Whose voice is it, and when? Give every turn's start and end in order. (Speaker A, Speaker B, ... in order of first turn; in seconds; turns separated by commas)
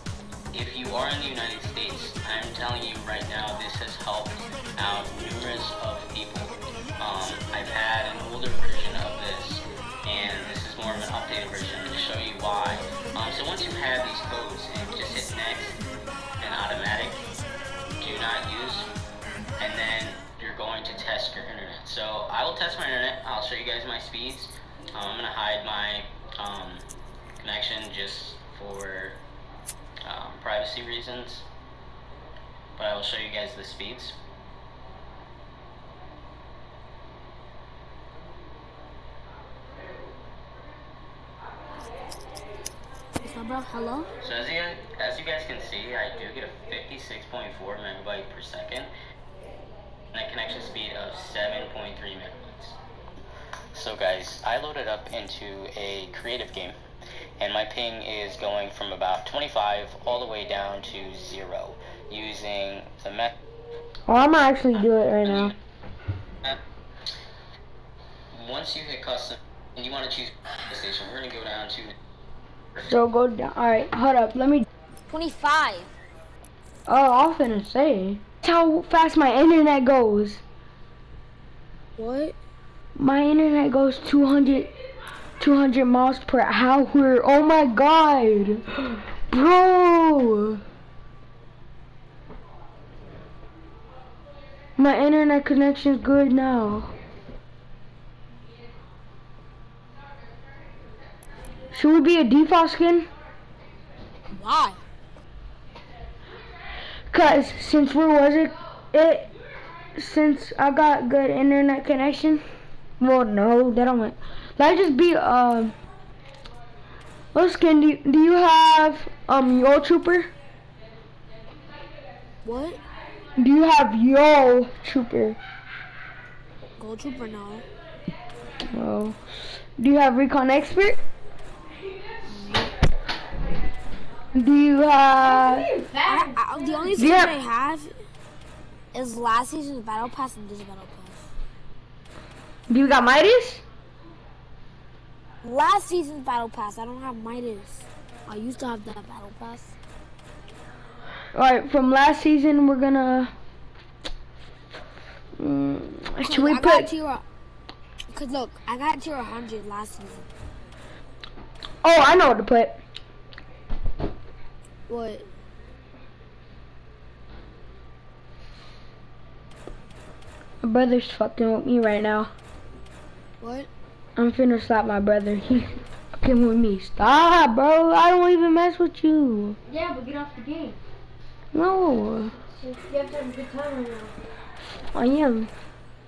Speaker A: 0.5-15.8, Speaker A: 16.4-17.2, Speaker A: 18.0-18.9, Speaker A: 19.6-26.8, Speaker A: 27.4-29.2, Speaker A: 30.1-31.5, Speaker A: 32.8-34.2, Speaker B: 43.2-44.1, Speaker A: 44.2-48.9, Speaker A: 50.1-52.8, Speaker A: 53.7-56.8, Speaker A: 57.4-63.4, Speaker C: 64.1-65.5, Speaker A: 65.2-65.5, Speaker A: 68.3-72.0, Speaker C: 72.8-74.7, Speaker B: 75.1-75.9, Speaker C: 76.9-80.4, Speaker B: 82.0-82.3, Speaker C: 83.0-84.7, Speaker C: 85.4-90.6, Speaker C: 94.8-96.9, Speaker C: 101.7-103.1, Speaker B: 104.3-104.8, Speaker C: 107.1-109.3, Speaker C: 110.0-112.4, Speaker C: 113.0-115.7, Speaker C: 117.3-120.3, Speaker B: 122.4-122.8, Speaker C: 123.4-125.4, Speaker B: 126.8-127.7, Speaker C: 128.7-129.2, Speaker C: 129.8-131.0, Speaker B: 132.3-132.7, Speaker C: 134.3-135.7, Speaker D: 135.2-136.5, Speaker B: 136.1-137.9, Speaker C: 137.0-137.3, Speaker B: 138.9-141.3, Speaker C: 142.7-143.6, Speaker B: 145.4-149.7, Speaker C: 151.3-153.3, Speaker C: 155.4-156.9, Speaker B: 156.2-157.2, Speaker B: 158.1-160.3, Speaker C: 161.8-162.8, Speaker B: 164.9-165.3, Speaker C: 170.6-172.3, Speaker B: 173.4-173.7, Speaker C: 174.2-179.6, Speaker D: 179.6-180.8, Speaker C: 181.5-182.3, Speaker D: 182.4-184.2, Speaker C: 184.9-185.5